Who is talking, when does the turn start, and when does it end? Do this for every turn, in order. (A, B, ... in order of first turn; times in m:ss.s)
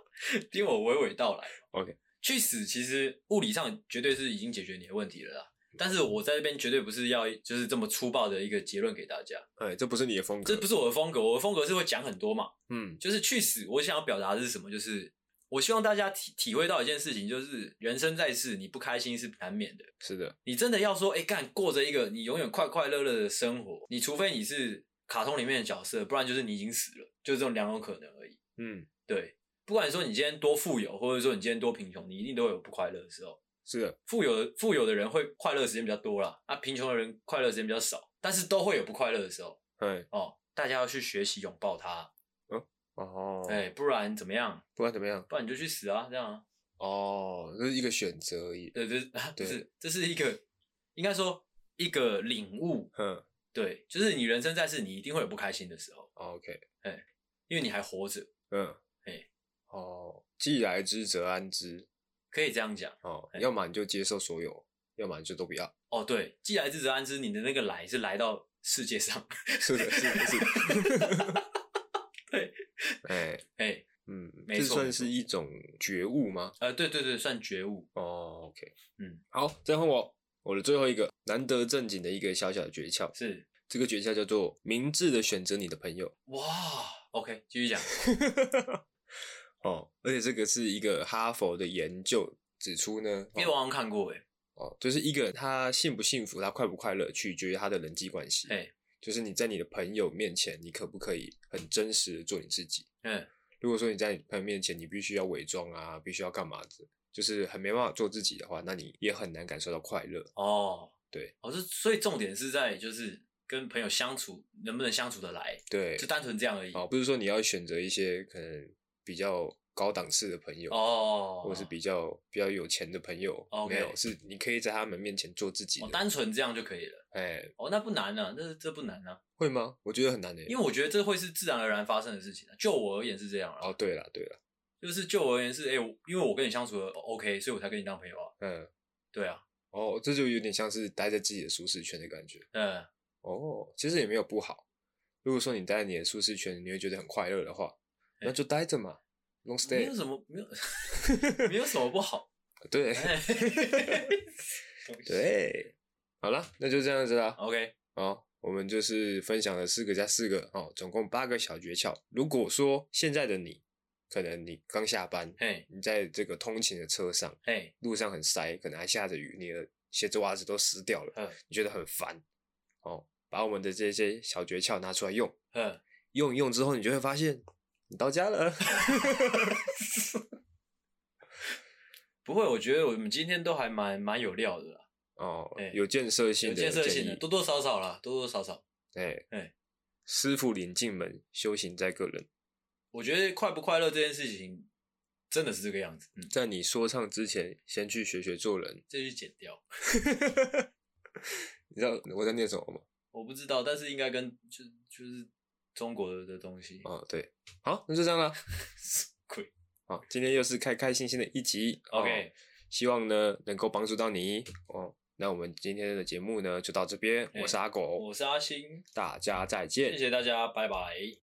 0:00.2-0:01.6 A
0:01.7-0:02.0 B
0:02.2-0:09.4 A
0:09.6-0:10.7 B
0:10.4-0:19.9 A
0:12.7-0:13.0 B
0:20.0-0:20.4 B
0:20.4-0:28.4 A
0:28.6-0:28.9 B
0:29.1-0:33.4 A
0:33.6-0:34.0 B
0:34.1-0:39.6 A
0:39.8-0:40.1 B
0:40.1-0:42.1 A
0:42.5-0:43.7 B
0:43.4-0:44.6 A
0:44.8-0:45.3 B
0:45.3-0:46.4 A
0:46.8-0:48.7 B
0:48.7-0:50.4 A
0:49.4-0:49.6 B
0:51.0-0:52.9 A
0:52.9-0:53.2 B
0:53.5-0:56.1 A
0:56.2-0:56.6 B
0:56.8-0:58.3 A
0:58.5-0:58.8 B
0:59.7-1:01.9 B
1:02.3-1:03.4 A
1:03.0-1:05.7 B
1:05.9-1:11.4 A
1:09.6-1:11.4 B
1:12.3-1:13.0 A
1:13.0-1:13.4 B
1:13.6-1:13.8 A
1:14.0-1:16.6 B
1:14.5-1:15.1 A
1:16.6-1:17.9 A
1:17.9-1:18.7 B
1:19.3-1:23.1 B
1:23.1-1:23.4 A
1:23.7-1:26.1 B
1:26.3-1:28.0 A
1:27.8-1:28.8 B
1:29.6-1:33.5 B
1:33.3-1:34.2 A
1:34.6-1:42.8 B
1:38.5-1:38.7 A
1:43.0-1:43.3 A
1:43.6-1:50.3 B
1:50.3-1:56.8 A
1:55.7-1:56.1 B
1:56.7-2:00.8 B
2:00.7-2:01.7 A
2:01.4-2:06.0 B
2:03.5-2:04.0 A
2:05.8-2:07.0 A
2:07.1-2:07.5 B
2:07.6-2:09.2 A
2:09.4-2:10.5 B
2:10.5-2:13.7 A
2:13.6-2:14.4 B
2:14.8-2:18.3 A
2:18.4-2:18.7 B
2:19.1-2:19.4 A
2:19.7-2:22.5 B
2:22.5-2:22.9 A
2:23.2-2:24.6 B
2:25.2-2:29.9 B
2:29.6-2:32.3 A
2:31.0-2:31.5 B
2:32.7-2:34.1 B
2:33.0-2:34.2 A
2:34.8-2:35.3 A
2:35.1-2:37.4 B
2:37.4-2:37.7 A
2:37.9-2:52.2 B
2:45.4-2:45.6 A
2:47.4-2:47.7 A
2:52.8-2:55.3 B
2:55.5-2:55.8 A
2:56.1-2:59.6 B
2:58.8-3:00.2 A
3:02.2-3:04.9 A
3:05.2-3:07.2 B
3:06.4-3:08.6 A
3:08.9-3:09.2 B
3:10.1-3:12.3 B
3:12.9-3:14.7 A
3:15.3-3:16.3 A
3:16.3-3:18.8 B
3:18.9-3:19.6 A
3:19.9-3:20.7 B
3:21.2-3:22.8 B
3:23.1-3:26.9 A
3:26.8-3:28.4 B
3:28.6-3:29.5 A
3:29.9-3:38.0 B
3:31.9-3:32.3 A
3:37.3-3:38.8 A
3:38.9-3:40.0 B
3:39.8-3:41.2 A